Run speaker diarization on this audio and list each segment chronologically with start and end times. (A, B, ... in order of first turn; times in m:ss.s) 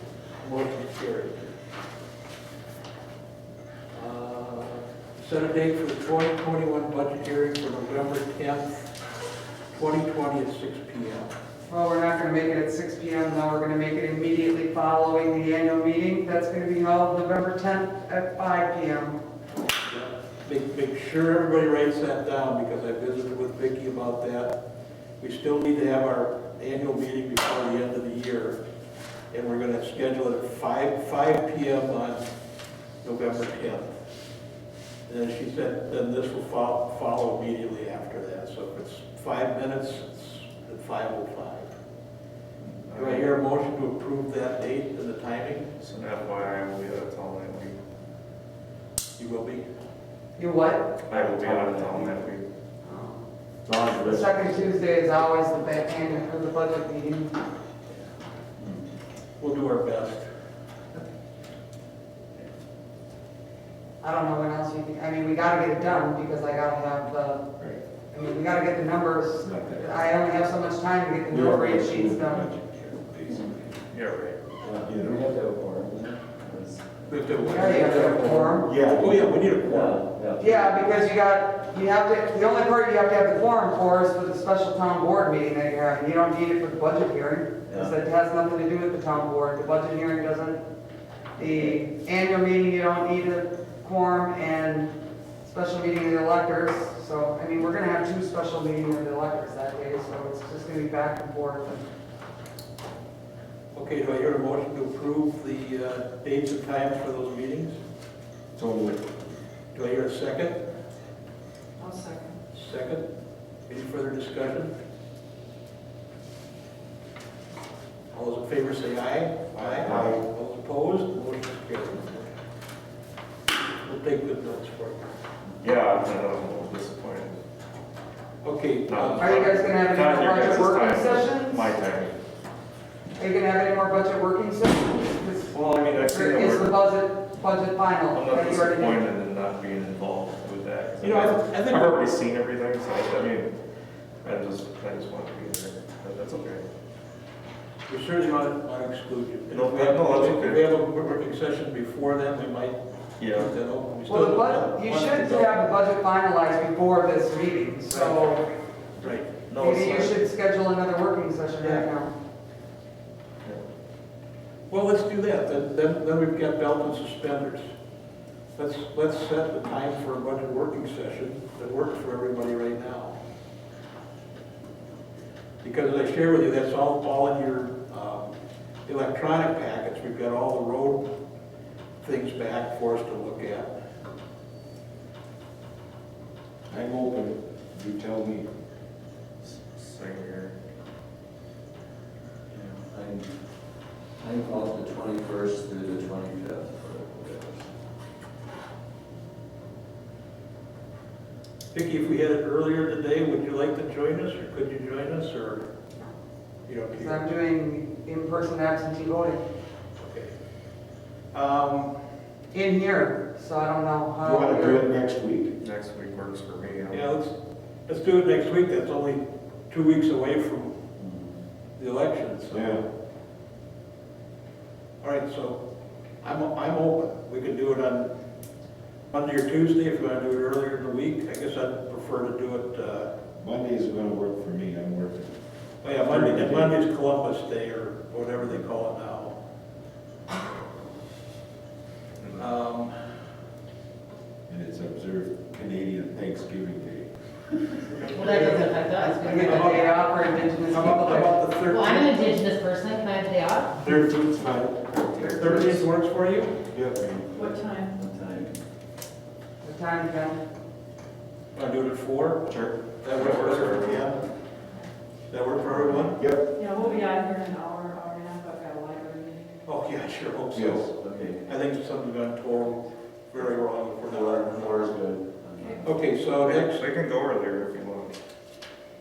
0:00.4-0:01.5 A
0:03.9-0:08.8 A
0:09.7-0:11.3 A
0:11.7-0:19.2 B
0:19.9-0:24.5 A
0:25.2-0:28.6 A
0:29.3-0:32.2 A
0:33.0-0:33.9 A
0:35.1-0:41.7 A
0:42.8-0:43.3 C
0:43.0-0:45.7 A
0:45.8-0:47.8 C
0:49.2-0:49.6 A
0:50.4-0:50.9 B
0:51.0-0:52.5 C
0:51.2-0:52.1 D
0:52.8-0:53.2 B
0:53.7-0:54.4 D
0:53.9-0:57.4 B
0:59.4-1:00.3 A
1:04.0-1:07.5 B
1:08.1-1:12.4 B
1:09.4-1:10.2 E
1:11.3-1:13.7 E
1:13.9-1:14.4 C
1:14.6-1:18.6 D
1:14.8-1:15.2 E
1:17.1-1:20.0 A
1:17.4-1:18.7 B
1:18.6-1:19.3 E
1:19.6-1:20.8 D
1:20.4-1:30.6 B
1:27.7-1:28.0 D
1:31.4-1:41.8 B
1:43.7-1:47.8 A
1:48.6-1:49.0 E
1:49.7-1:50.6 A
1:51.8-1:52.4 F
1:52.5-1:53.0 A
1:53.7-1:54.7 A
1:58.1-2:02.3 A
1:59.6-2:00.1 C
1:59.8-2:00.2 E
2:03.8-2:05.1 A
2:05.6-2:07.4 C
2:08.4-2:09.4 A
2:08.9-2:12.2 C
2:09.2-2:11.7 B
2:13.2-2:19.1 B
2:15.5-2:16.8 C
2:18.1-2:23.5 C
2:21.0-2:22.1 A
2:24.2-2:26.7 C
2:27.9-2:32.8 A
2:29.5-2:30.7 C
2:33.2-2:33.5 C
2:33.3-2:35.6 A
2:34.1-2:38.4 B
2:37.9-2:38.3 A
2:39.0-2:39.4 A
2:39.5-2:40.2 C
2:39.5-2:42.1 B
2:41.6-2:41.9 A
2:44.7-2:47.7 A
2:48.6-2:53.2 A
2:55.6-2:58.3 A
2:58.9-3:01.1 A
3:02.0-3:03.7 A
3:06.7-3:08.5 E
3:09.6-3:10.5 C
3:12.5-3:13.3 D
3:14.2-3:17.7 D
3:21.7-3:25.7 A
3:26.7-3:27.2 A
3:27.0-3:29.4 B
3:30.0-3:30.3 A
3:31.3-3:31.9 A
3:32.5-3:34.8 B
3:34.2-3:35.5 E
3:35.6-3:37.1 C
3:36.9-3:37.3 A
3:37.9-3:40.7 A
3:41.8-3:42.8 A
3:42.5-3:42.8 E
3:45.0-3:45.6 A
3:46.2-3:48.1 A
3:49.1-3:53.1 A
3:53.4-3:55.3 E
3:55.8-3:59.3 A
3:56.0-3:56.8 E
4:02.3-4:03.0 A
4:04.5-4:07.2 E
4:08.0-4:10.1 A
4:08.1-4:10.4 G
4:09.0-4:11.4 B
4:10.7-4:12.2 A
4:11.6-4:13.7 G
4:13.8-4:15.8 E
4:15.4-4:16.5 A
4:16.7-4:17.0 E
4:17.0-4:18.6 D
4:17.3-4:18.0 F
4:19.6-4:20.4 B
4:21.6-4:22.5 A
4:22.4-4:24.1 C
4:23.0-4:24.3 A
4:25.3-4:26.2 A
4:26.2-4:26.5 E
4:26.6-4:29.6 F
4:29.6-4:34.8 A
4:30.5-4:30.9 E
4:30.9-4:31.6 D
4:34.1-4:35.9 D
4:35.6-4:35.8 F
4:35.8-4:36.8 A
4:36.4-4:38.2 C